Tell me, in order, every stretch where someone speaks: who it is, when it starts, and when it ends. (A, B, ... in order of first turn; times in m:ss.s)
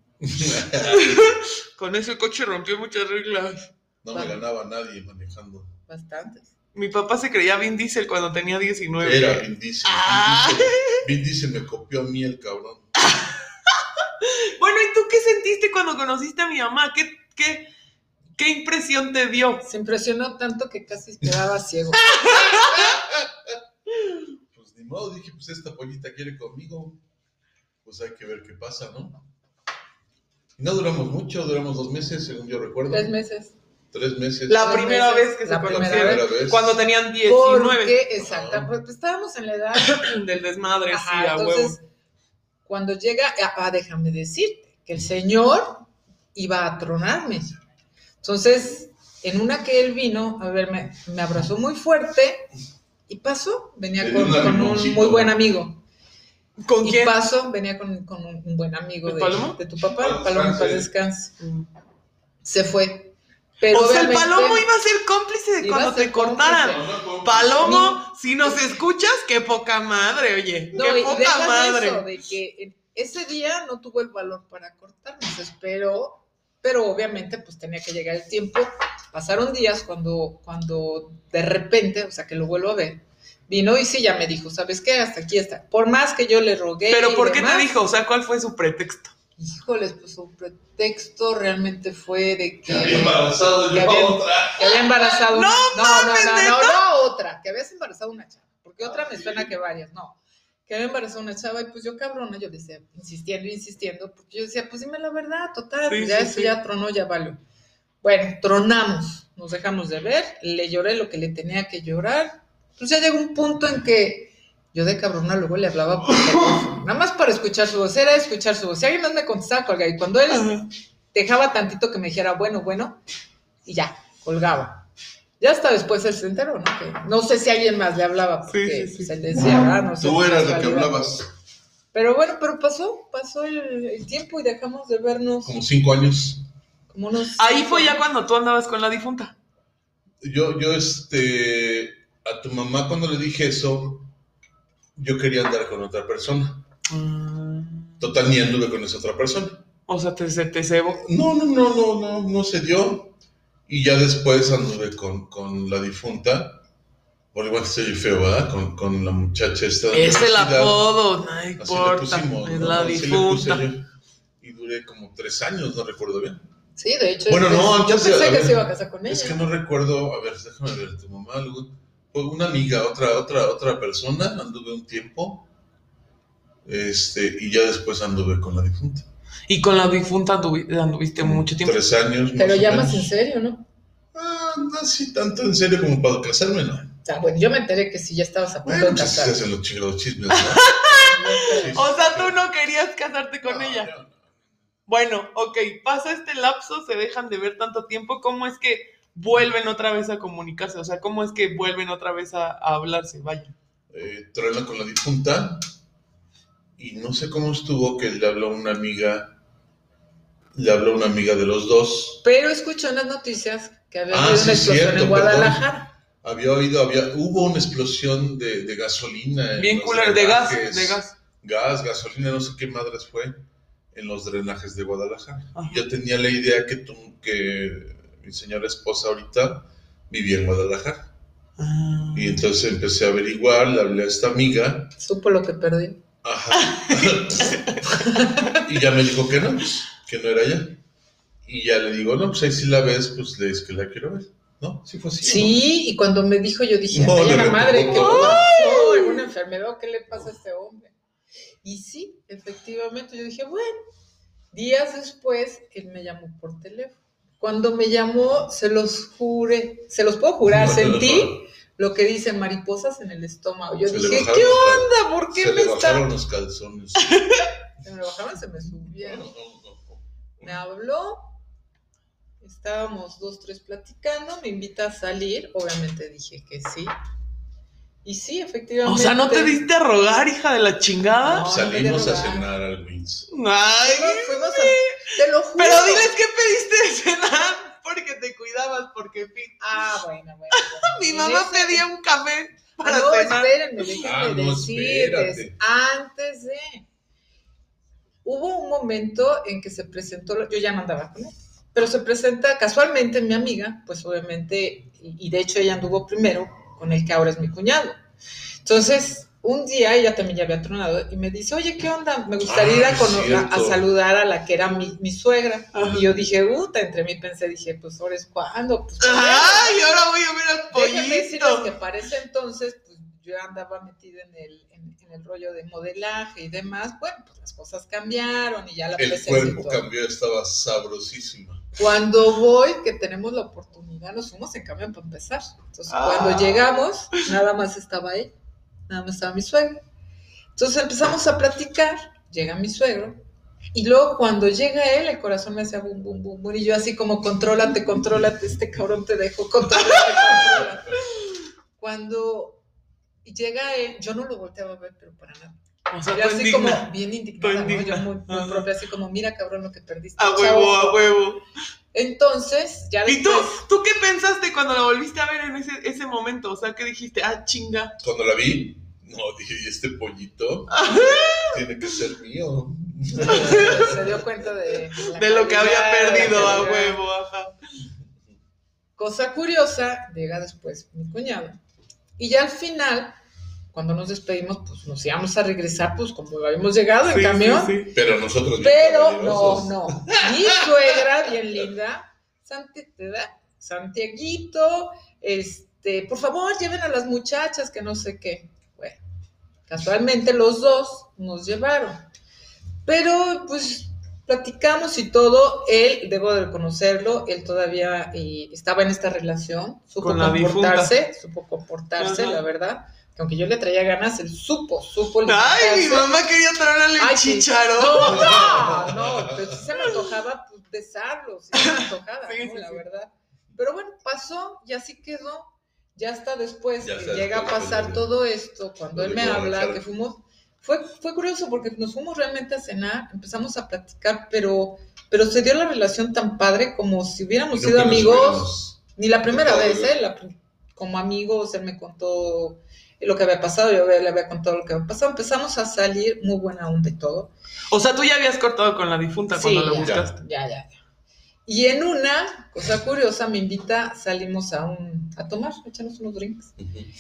0:00.2-0:01.2 A
0:00.8-0:03.7 B
0:04.0-0:05.7 A
0:04.1-0:04.4 C
0:05.9-0:06.5 C
0:06.8-0:11.0 B
0:09.0-0:12.9 A
0:13.0-0:13.3 B
0:14.2-0:17.7 B
0:18.4-0:19.6 B
0:19.6-0:22.7 C
0:22.1-0:22.9 B
0:22.8-0:23.6 A
0:24.5-0:27.0 A
0:27.8-0:29.2 A
0:30.6-0:33.1 A
0:32.9-0:33.6 C
0:33.9-0:34.8 A
0:34.5-0:38.0 B
0:34.6-0:36.3 C
0:35.7-0:36.8 A
0:37.3-0:40.1 C
0:38.2-0:38.7 A
0:39.8-0:41.8 B
0:40.9-0:41.8 C
0:42.6-0:47.6 C
0:48.2-0:52.5 C
0:53.1-0:55.8 C
0:54.0-0:55.4 A
0:56.6-0:57.2 B
0:56.8-1:01.3 C
0:59.1-0:59.6 B
0:59.8-1:00.9 A
1:01.4-1:01.7 B
1:02.4-1:04.7 C
1:03.7-1:12.0 B
1:05.6-1:06.8 C
1:06.6-1:07.8 A
1:07.6-1:08.8 C
1:10.8-1:27.7 C
1:26.9-1:29.1 B
1:29.4-1:47.4 C
1:32.6-1:35.0 A
1:35.3-1:36.8 B
1:38.8-1:39.5 A
1:45.9-1:46.6 B
1:48.0-2:00.6 C
2:00.3-2:00.7 B
2:01.1-2:03.0 C
2:03.6-2:04.8 C
2:05.4-2:11.1 C
2:08.5-2:09.6 B
2:09.4-2:11.3 A
2:11.9-2:15.6 C
2:15.4-2:16.4 A
2:16.9-2:18.0 C
2:17.4-2:19.4 B
2:20.2-2:24.1 A
2:25.0-2:26.6 A
2:26.9-2:28.1 B
2:28.0-2:29.6 A
2:29.9-2:31.0 B
2:31.0-2:33.1 A
2:33.7-2:36.6 A
2:37.3-2:40.8 A
2:39.9-2:43.7 B
2:41.6-2:43.9 A
2:44.4-2:46.4 A
2:46.8-2:49.4 C
2:47.3-2:55.5 A
2:56.6-2:59.1 A
2:59.5-3:01.8 B
3:01.2-3:03.1 A
3:02.4-3:03.7 C
3:04.1-3:06.9 A
3:07.0-3:09.4 C
3:08.6-3:10.7 A
3:10.3-3:13.9 B
3:10.9-3:11.8 C
3:11.5-3:12.4 A
3:13.4-3:14.3 A
3:14.9-3:23.6 B
3:23.9-3:25.6 A
3:26.8-3:29.4 A
3:30.5-3:32.2 A
3:32.2-3:35.9 C
3:34.1-3:35.7 A
3:36.2-3:43.4 A
3:39.6-3:41.2 B
3:43.9-3:51.1 A
3:45.6-3:45.8 B
3:51.6-3:52.4 B
3:52.1-3:54.9 A
3:55.0-3:56.0 C
3:56.2-3:57.8 A
3:56.5-3:58.6 B
3:58.0-3:58.6 C
3:58.6-4:00.8 A
4:01.4-4:05.6 A
4:05.2-4:10.9 C
4:06.9-4:08.5 A
4:08.0-4:09.2 B
4:11.6-4:13.8 C
4:14.5-4:26.1 C
4:20.4-4:21.4 A
4:23.9-4:27.3 A
4:27.0-4:27.4 B
4:27.8-4:29.3 C
4:29.0-4:30.5 A
4:30.4-4:31.3 C
4:32.4-4:36.9 C
4:38.0-4:39.6 C
4:38.8-4:41.5 B
4:41.2-4:42.5 C
4:41.4-4:43.3 A
4:43.3-4:49.8 B
4:43.8-4:46.1 C
4:49.6-4:51.9 C
4:50.5-4:53.6 B
4:52.8-4:56.8 C
4:53.9-4:55.6 A
4:58.2-5:08.0 C
5:08.6-5:19.9 C
5:12.4-5:13.8 A
5:15.7-5:16.0 B
5:19.0-5:21.7 B
5:20.7-5:29.8 C
5:29.0-5:31.6 A
5:31.8-5:38.3 C
5:35.9-5:37.2 B
5:38.9-5:39.8 C
5:40.6-5:43.2 C
5:43.7-5:50.9 C
5:51.8-5:52.6 C
5:53.2-5:55.6 C
5:55.9-5:58.7 B
5:56.1-6:01.1 C
6:00.2-6:01.4 B
6:01.9-6:03.6 C
6:03.1-6:08.0 B
6:08.0-6:14.2 A
6:10.7-6:11.6 B
6:13.2-6:14.0 B
6:13.2-6:17.0 C
6:15.0-6:17.6 B
6:19.0-6:21.6 C
6:22.2-6:23.2 C
6:23.7-6:27.8 C
6:27.1-6:27.9 B
6:27.9-6:30.7 A
6:28.6-6:39.0 C
6:39.7-6:42.0 C
6:42.9-6:56.1 C
6:50.0-6:50.9 B
6:52.0-6:52.4 B
6:55.3-6:58.5 B
6:57.0-7:27.3 C
6:58.0-6:59.6 A
7:01.5-7:02.8 B
7:06.8-7:08.1 A
7:08.9-7:09.8 A
7:17.5-7:18.8 A
7:19.3-7:19.9 A
7:27.7-7:30.2 B
7:29.3-7:30.7 C
7:29.8-7:30.1 A
7:31.5-7:36.5 C
7:36.6-7:36.9 A